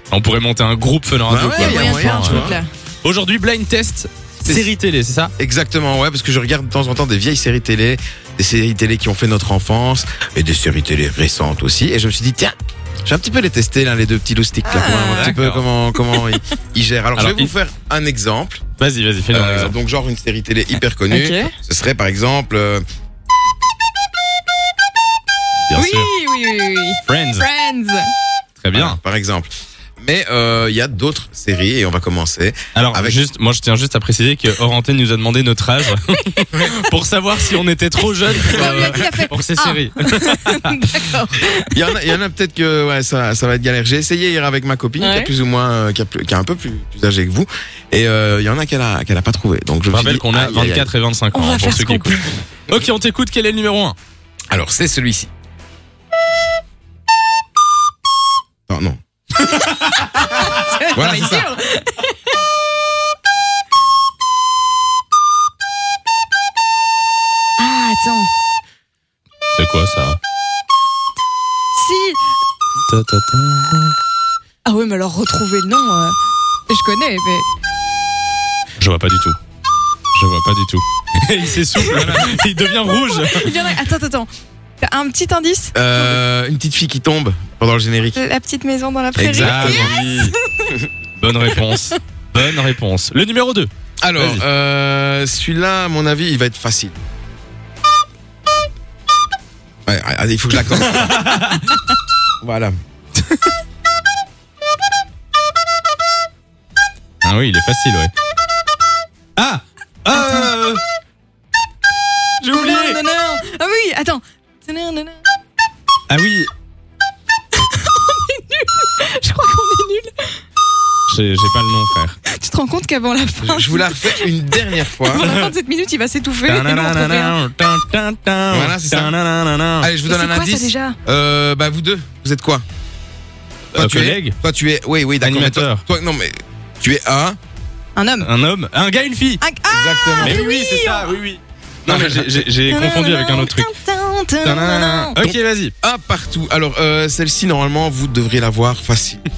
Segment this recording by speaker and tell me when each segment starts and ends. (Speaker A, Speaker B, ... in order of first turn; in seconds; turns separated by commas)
Speaker A: 0.1-2.5, Speaker B: 1.3-2.6, Speaker C: 1.6-2.7, Speaker A: 3.0-5.3, Speaker B: 4.4-4.7, Speaker B: 5.4-12.5, Speaker B: 13.0-18.6, Speaker C: 14.6-15.4, Speaker A: 15.1-15.6, Speaker C: 16.1-16.4, Speaker A: 17.1-17.5, Speaker A: 18.8-19.8, Speaker B: 19.3-22.8, Speaker C: 21.1-21.5, Speaker A: 25.7-26.1, Speaker C: 25.7-28.1, Speaker A: 27.1-27.4, Speaker A: 28.6-29.0, Speaker B: 28.7-29.5, Speaker B: 30.0-33.2, Speaker A: 32.7-40.9, Speaker B: 38.4-39.1, Speaker C: 38.4-41.8, Speaker B: 41.7-50.9, Speaker C: 45.0-45.3, Speaker A: 49.9-54.0, Speaker C: 51.3-52.4, Speaker B: 54.5-55.3, Speaker B: 58.7-59.0, Speaker A: 59.5-60.5, Speaker C: 59.7-62.3, Speaker B: 60.9-61.5, Speaker C: 67.6-68.3, Speaker A: 69.5-70.2, Speaker C: 71.7-72.2, Speaker A: 72.9-73.9, Speaker C: 74.6-76.2, Speaker C: 76.7-77.5, Speaker A: 78.8-79.4, Speaker A: 80.1-83.6, Speaker B: 81.8-82.4, Speaker C: 82.8-84.3, Speaker C: 84.8-86.2, Speaker B: 85.7-88.2, Speaker C: 88.1-90.7, Speaker B: 89.2-89.9, Speaker A: 89.4-90.3, Speaker A: 91.2-94.4, Speaker C: 91.7-91.9, Speaker B: 94.0-97.0, Speaker B: 99.8-101.3, Speaker A: 100.8-101.8, Speaker B: 102.4-102.7, Speaker A: 107.2-108.1, Speaker A: 109.3-110.8, Speaker C: 110.1-110.5, Speaker A: 112.4-113.0, Speaker C: 112.5-115.2, Speaker A: 116.1-116.5, Speaker C: 117.5-120.4, Speaker A: 121.1-122.2, Speaker C: 122.3-127.4, Speaker B: 123.4-125.3, Speaker A: 125.2-125.5, Speaker A: 126.4-129.9, Speaker B: 128.5-129.1, Speaker B: 129.8-132.6, Speaker C: 130.1-131.0, Speaker A: 133.7-134.3, Speaker B: 133.7-137.4, Speaker A: 135.2-135.8, Speaker C: 137.9-138.3, Speaker A: 138.2-139.4, Speaker C: 139.4-141.1, Speaker B: 139.7-140.4, Speaker A: 140.2-143.7, Speaker B: 141.9-142.3, Speaker C: 142.7-145.2, Speaker A: 144.4-145.7, Speaker B: 145.2-149.2